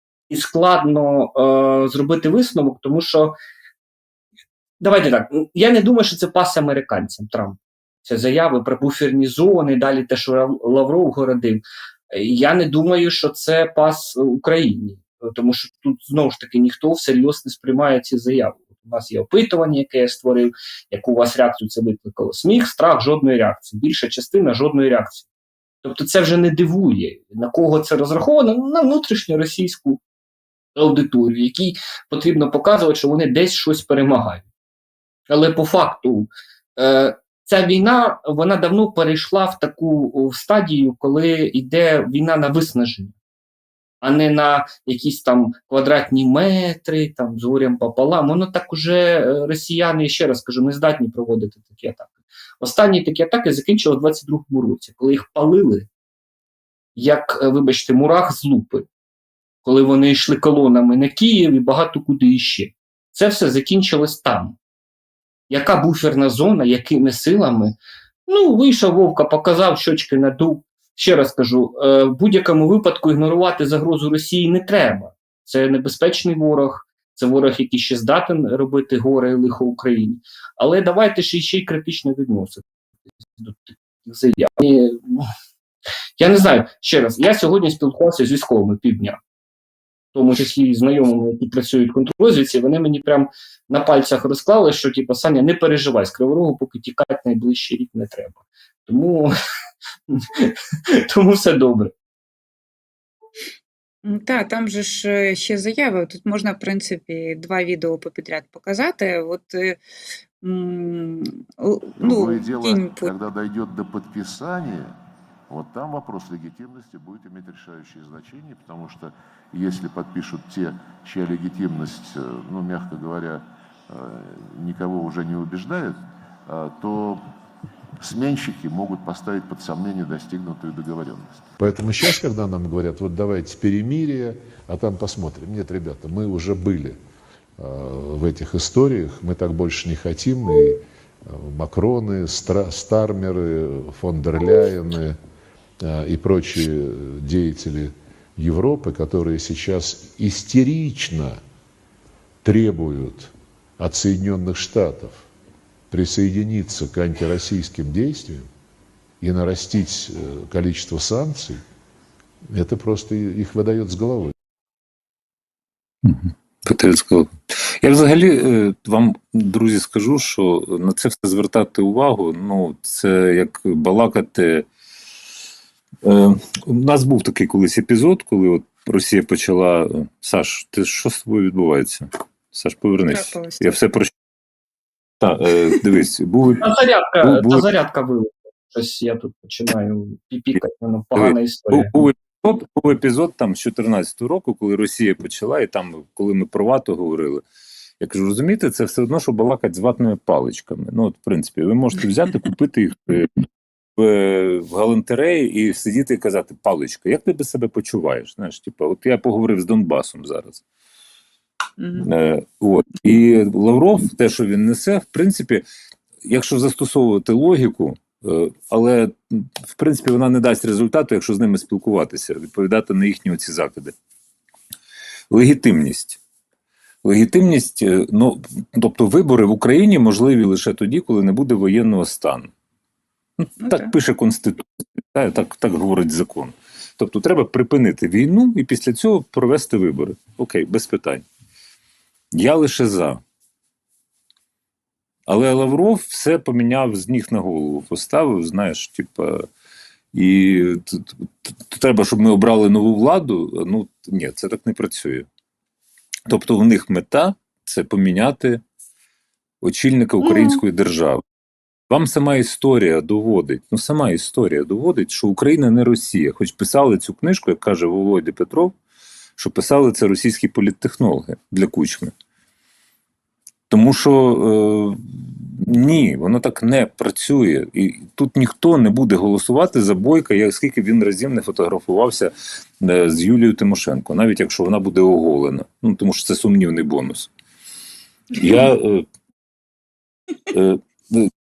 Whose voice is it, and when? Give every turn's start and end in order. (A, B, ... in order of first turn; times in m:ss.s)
0:00.3-0:03.3 A
0:04.8-0:25.3 A
0:25.8-0:30.0 A
0:30.8-0:34.4 A
0:35.3-0:43.1 A
0:44.0-0:55.9 A
0:57.0-0:58.9 A
0:59.6-1:04.6 A
1:05.5-1:07.8 A
1:08.3-1:22.6 A
1:23.4-1:25.3 A
1:26.2-1:29.2 A
1:30.1-1:39.3 A
1:40.1-1:40.5 A
1:41.1-1:41.9 A
1:44.0-1:49.8 B
1:50.4-1:53.1 B
1:52.0-1:54.9 C
1:55.5-2:07.2 C
2:08.0-2:11.4 C
2:11.6-2:17.0 D
2:17.6-2:25.2 D
2:25.8-2:31.4 D
2:32.4-2:35.2 D
2:35.9-2:38.5 D
2:39.2-2:41.6 D
2:42.5-2:44.3 D
2:46.0-2:54.7 E
2:56.0-3:04.1 E
3:03.1-3:03.8 B
3:05.2-3:06.6 E
3:06.6-3:11.9 A
3:07.2-3:07.6 E
3:11.2-3:17.4 E
3:18.0-3:23.4 E
3:24.0-3:30.6 E
3:31.8-3:32.1 B
3:32.0-3:35.6 E
3:36.2-3:43.9 E
3:45.3-3:46.2 E
3:47.0-3:52.5 E
3:53.4-4:01.2 E
3:53.6-3:53.9 B
4:02.3-4:03.2 E
4:05.3-4:09.5 E
4:10.1-4:15.3 E
4:16.3-4:18.6 E
4:19.6-4:21.2 E
4:20.2-4:20.6 B
4:21.9-4:28.7 E
4:29.4-4:32.1 E
4:33.7-4:47.3 E
4:48.3-4:49.0 E
4:50.5-4:51.3 E